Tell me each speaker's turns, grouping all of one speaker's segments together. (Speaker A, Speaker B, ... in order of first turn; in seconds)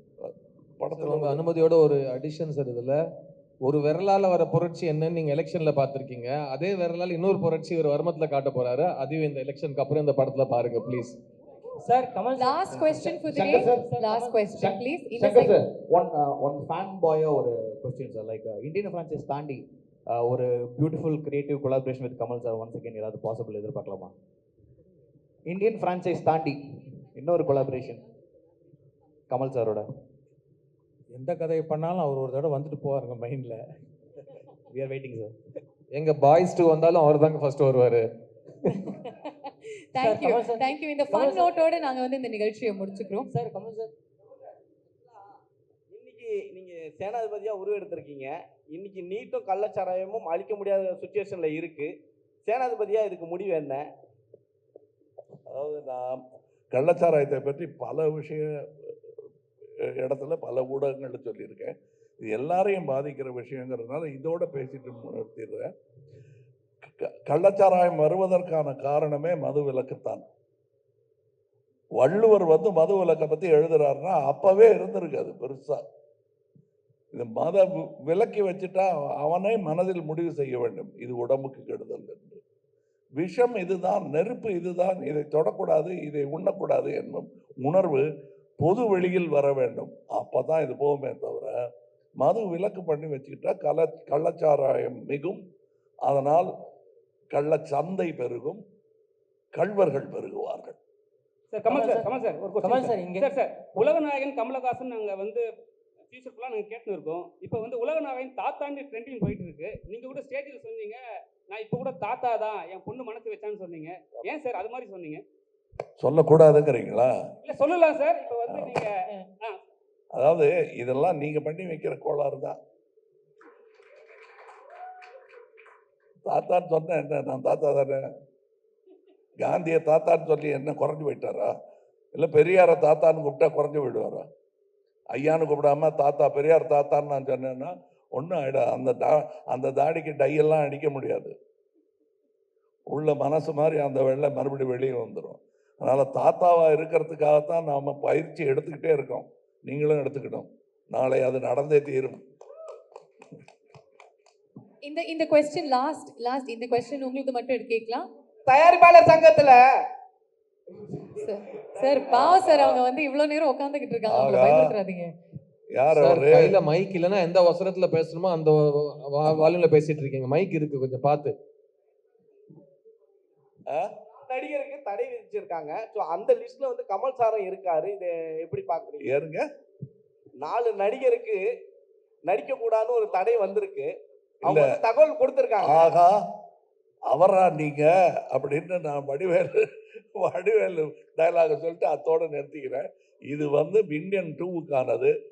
Speaker A: 0.2-1.4, 55.5-56.2, 56.7-58.9, 60.0-65.7, 67.3-70.2, 72.0-75.8, 77.1-82.4, 83.2-88.0, 88.6-91.5, 92.2-95.4, 96.0-96.5, 97.3-98.6, 99.5-100.8, 116.0-117.1, 118.5-118.8, 120.1-122.6, 126.3-128.0, 129.4-131.5, 132.2-134.2, 135.1-141.3, 142.9-152.2, 164.1-164.8, 165.7-166.6, 169.3-169.6, 179.0-179.4, 184.4-184.7, 185.6-186.1, 187.1-189.7, 190.2-195.1
Speaker B: 0.9-3.0, 3.6-11.2, 35.9-38.0, 165.9-171.3
Speaker C: 11.8-13.1, 13.7-14.5, 40.0-41.6, 43.3-43.9, 101.7-103.3
Speaker D: 12.3-15.5, 39.9-43.3, 154.8-158.1, 161.2-165.1
Speaker E: 12.7-13.9, 14.5-24.1, 25.5-28.0, 29.3-29.9, 34.7-35.3
Speaker F: 31.2-33.6
Speaker G: 45.9-51.9, 52.5-53.8, 158.5-159.7, 162.1-162.6, 174.2-179.1, 180.4-181.4, 182.2-183.9, 184.4-185.9
Speaker H: 101.5-105.4, 106.1-115.2, 117.4-119.6